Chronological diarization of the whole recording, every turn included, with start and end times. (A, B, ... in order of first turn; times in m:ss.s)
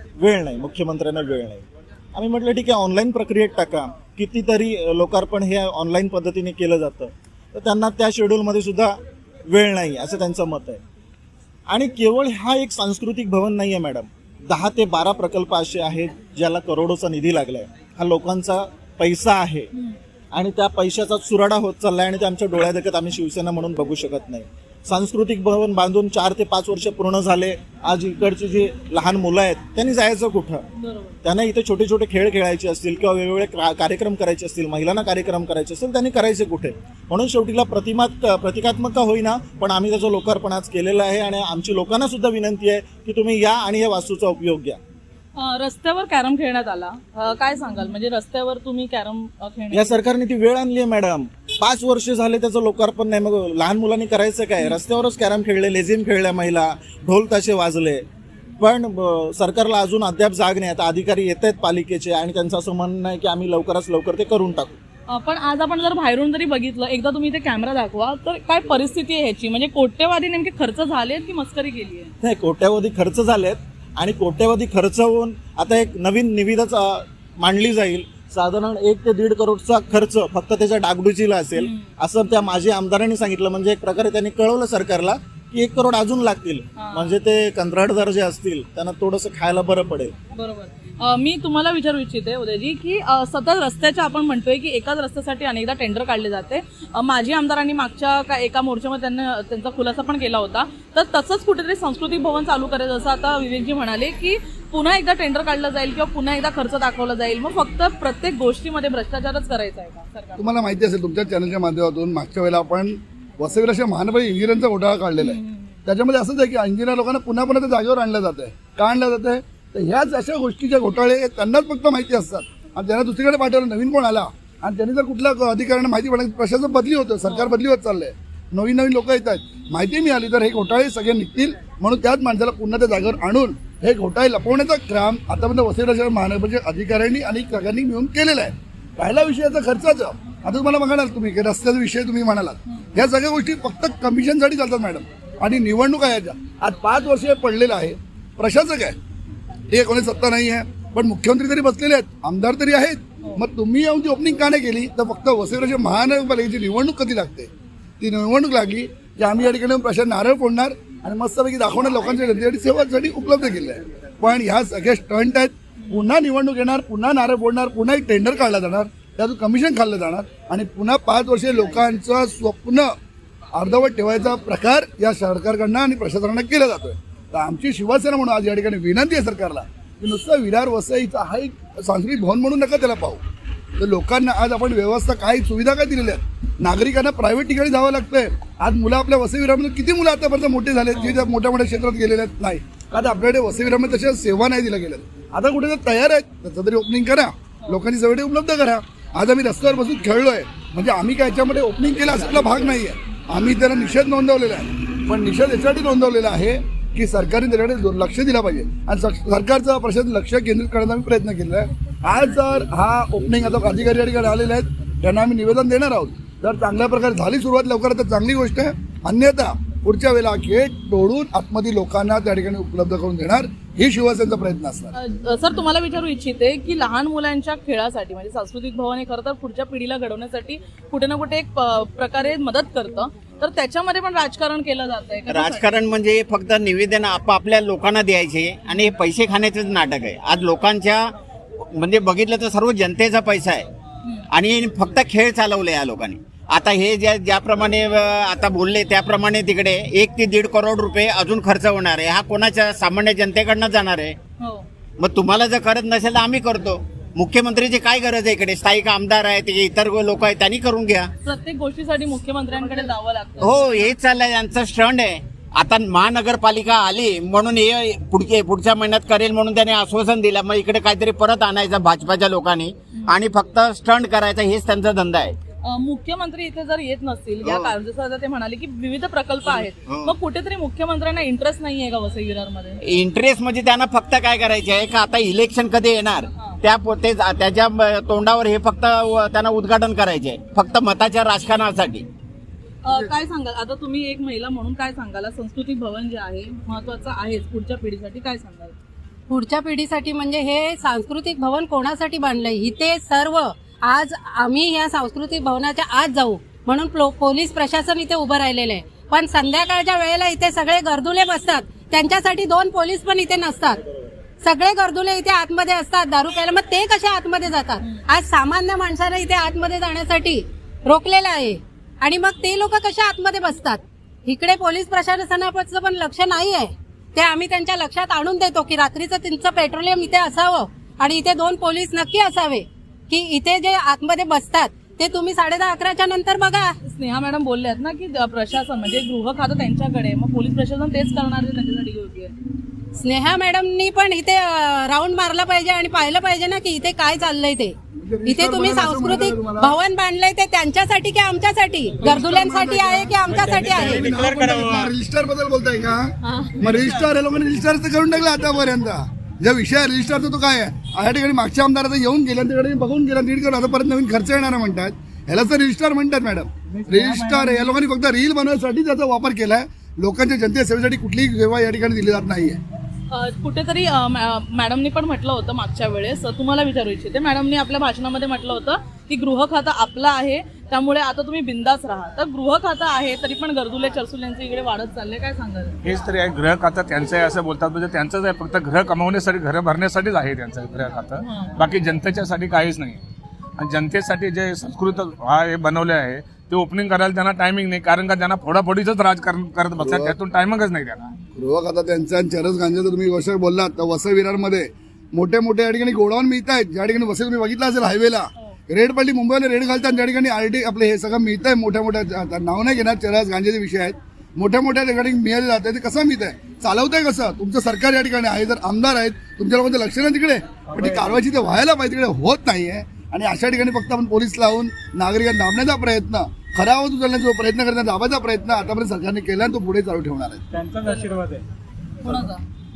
0:00.2-0:09.0 A
0:09.5-0:10.8 A
0:11.7-0:19.7 A
0:20.3-0:30.6 A
0:30.8-0:31.2 B
0:31.2-0:44.8 A
0:45.4-0:50.0 B
0:49.7-0:58.0 A
0:58.6-1:04.8 A
1:05.1-1:12.1 B
1:12.2-1:30.1 A
1:21.6-1:21.9 B
1:26.8-1:27.2 B
1:30.3-1:50.5 B
1:50.4-2:29.0 C
1:55.2-1:55.8 B
2:07.2-2:07.6 B
2:29.7-2:37.5 C
2:38.0-2:52.9 C
2:53.6-3:03.2 C
3:03.8-3:44.9 C
3:45.0-3:55.7 B
3:55.3-4:01.0 D
4:01.7-4:03.6 D
4:04.3-4:14.2 D
4:14.4-4:14.6 B
4:15.0-4:21.1 D
4:21.2-4:23.9 B
4:23.4-4:35.4 D
4:35.7-4:42.8 B
4:37.4-4:37.7 D
4:39.5-4:40.1 D
4:42.8-4:52.0 D
4:52.8-4:58.8 B
4:59.3-5:13.8 E
5:13.7-5:14.1 A
5:14.4-5:36.8 E
5:36.8-5:42.3 B
5:43.0-5:47.7 E
5:48.0-5:49.8 C
5:48.2-5:54.0 E
5:52.0-5:52.3 F
5:52.0-6:12.6 C
5:53.2-5:54.9 F
5:56.3-5:56.6 E
5:56.7-5:57.0 F
6:06.7-6:07.7 F
6:13.1-6:25.8 B
6:25.8-6:33.0 G
6:31.2-6:31.6 B
6:33.6-6:41.1 G
6:39.8-6:40.2 C
6:41.4-7:10.4 C
7:00.7-7:01.2 F
7:10.5-7:11.4 F
7:12.0-7:12.4 B